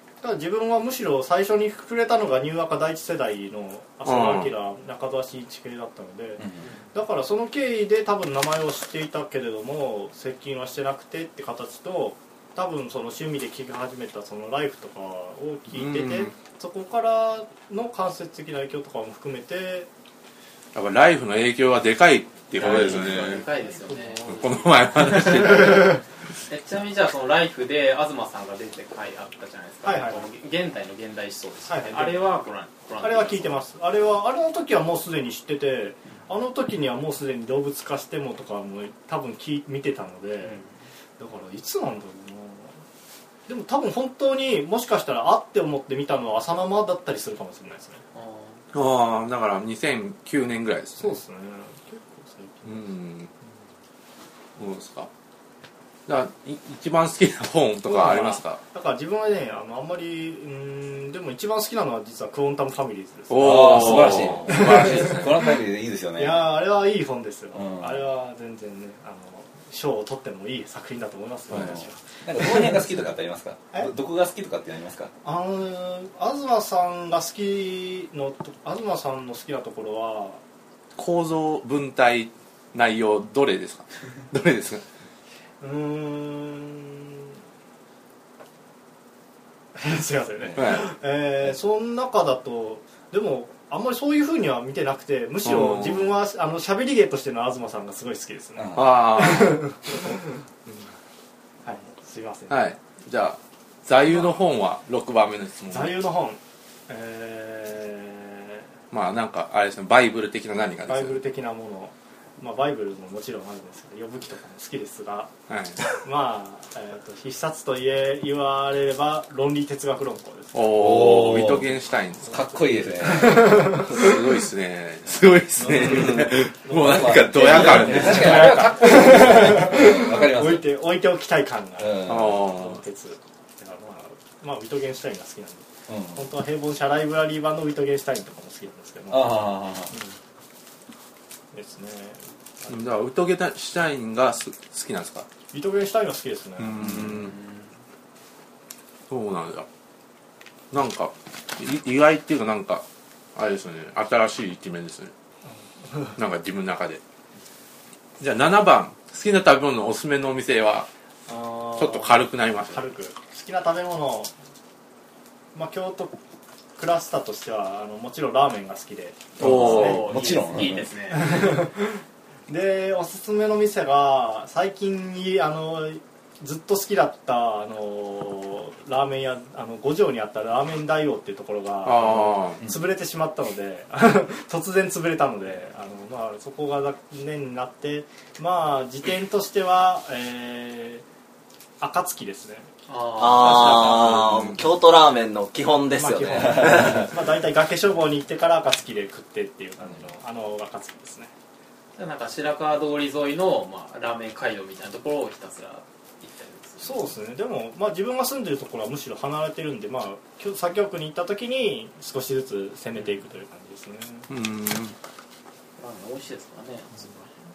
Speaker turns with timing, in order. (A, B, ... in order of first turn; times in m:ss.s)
0:00.2-0:19.9 A
0:04.0-0:04.5 B
0:15.7-0:16.3 B
0:20.8-0:23.5 B
0:22.6-0:24.3 C
0:22.6-0:25.8 A
0:24.3-0:26.0 B
0:25.0-0:33.6 C
0:29.8-0:30.3 A
0:31.7-0:32.3 A
0:33.0-0:40.6 A
0:41.2-0:42.8 A
0:43.5-0:48.0 A
0:48.1-0:48.6 C
0:48.7-0:51.2 B
0:51.0-0:53.0 A
0:52.6-0:53.3 B
0:54.6-0:55.1 B
0:56.1-0:58.6 B
0:57.8-1:05.6 A
1:03.3-1:05.3 B
1:03.4-1:06.5 D
1:06.2-1:13.0 A
1:07.6-1:07.9 D
1:12.2-1:15.1 D
1:15.2-1:20.4 A
1:21.0-1:24.8 B
1:25.6-1:27.4 A
1:29.8-1:40.7 A
1:30.6-1:30.9 B
1:35.4-1:36.1 B
1:38.6-1:38.9 D
1:38.8-1:39.7 B
1:41.6-1:42.7 A
1:42.5-1:46.0 B
1:45.7-1:48.7 A
1:48.9-1:51.2 B
1:50.9-1:55.3 A
1:55.5-1:55.8 B
1:55.9-2:00.7 A
2:00.5-2:02.5 B
2:00.8-2:01.7 D
2:02.3-2:03.8 D
2:02.3-2:04.1 A
2:03.7-2:08.7 B
2:05.6-2:20.2 A
2:06.8-2:10.8 D
2:11.8-2:12.4 D
2:12.0-2:12.8 B
2:15.9-2:16.2 D
2:19.1-2:19.9 D
2:21.5-2:22.9 A
2:22.7-2:25.3 B
2:25.5-2:27.3 A
2:26.6-2:27.4 B
2:27.2-2:27.7 C
2:29.1-2:29.7 B
2:30.7-2:32.8 B
2:33.4-2:35.1 B
2:35.5-2:36.2 A
2:36.2-2:37.0 B
2:38.2-2:40.9 B
2:41.3-2:44.3 A
2:41.8-2:42.9 B
2:45.5-2:46.2 A
2:46.8-2:50.1 A
2:49.4-2:50.9 D
2:49.4-2:50.0 B
2:49.4-2:51.4 C
2:51.1-3:11.0 A
3:01.8-3:02.6 B
3:11.8-3:12.7 A
3:12.9-3:14.7 C
3:13.2-3:17.0 E
3:16.0-3:21.3 A
3:16.6-3:17.1 D
3:22.0-3:27.1 C
3:26.8-3:34.3 A
3:34.3-3:35.0 B
3:35.8-3:37.4 C